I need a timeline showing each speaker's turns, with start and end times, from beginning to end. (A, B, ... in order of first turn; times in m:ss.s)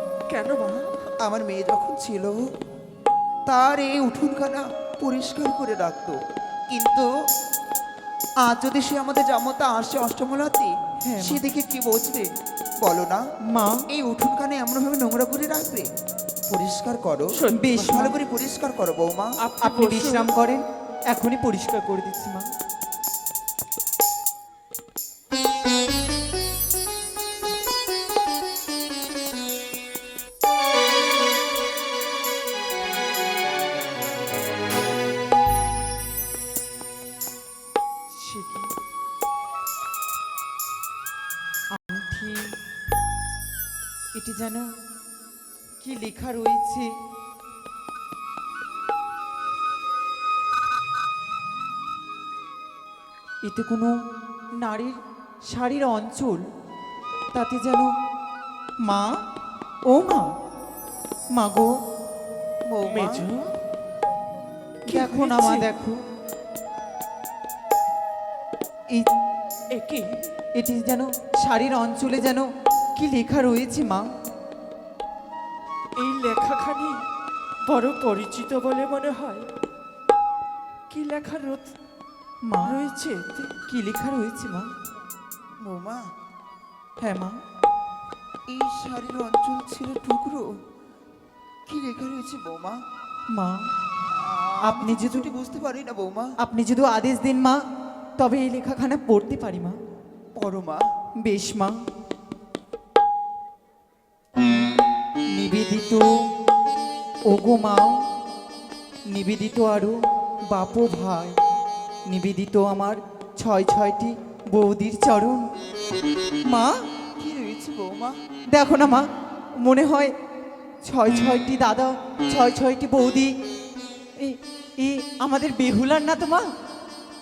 0:00.3-0:00.9 A
0:01.2-0:02.5 B
0:03.5-0:06.2 B
0:06.7-0:07.1 B
0:08.4-0:12.3 B
0:11.0-0:11.4 C
0:12.8-0:13.2 B
0:13.5-0:13.8 C
0:13.9-0:15.9 B
0:16.5-0:19.4 B
0:17.3-0:18.1 A
0:17.5-0:18.1 C
0:19.4-0:20.3 A
0:19.6-0:22.5 C
0:38.1-0:38.7 C
0:41.7-0:42.6 C
0:44.2-0:44.7 C
0:45.8-0:47.0 C
0:53.4-0:54.0 C
0:54.6-0:56.5 C
0:57.3-0:57.9 C
0:58.8-0:59.2 C
0:59.9-1:00.4 C
1:01.3-1:01.8 C
1:02.6-1:03.3 B
1:02.8-1:03.5 A
1:04.8-1:06.0 C
1:04.9-1:05.7 A
1:09.7-1:10.2 A
1:10.5-1:14.1 C
1:16.0-1:17.1 A
1:17.6-1:19.5 A
1:20.9-1:21.7 A
1:22.4-1:22.8 C
1:22.6-1:23.5 A
1:23.6-1:24.7 C
1:25.6-1:26.1 B
1:27.0-1:27.4 C
1:28.5-1:30.5 B
1:31.7-1:32.8 B
1:33.3-1:33.7 C
1:34.1-1:36.3 B
1:34.6-1:35.3 C
1:36.4-1:37.6 C
1:38.2-1:39.8 C
1:40.4-1:40.9 B
1:41.2-1:41.8 C
1:45.3-1:46.1 C
1:47.3-1:48.0 C
1:49.1-1:51.4 C
1:52.1-1:55.5 C
1:56.5-1:56.8 C
1:57.2-1:58.2 B
1:58.5-1:59.1 C
1:59.6-2:00.1 C
2:00.8-2:03.3 C
2:04.2-2:06.5 C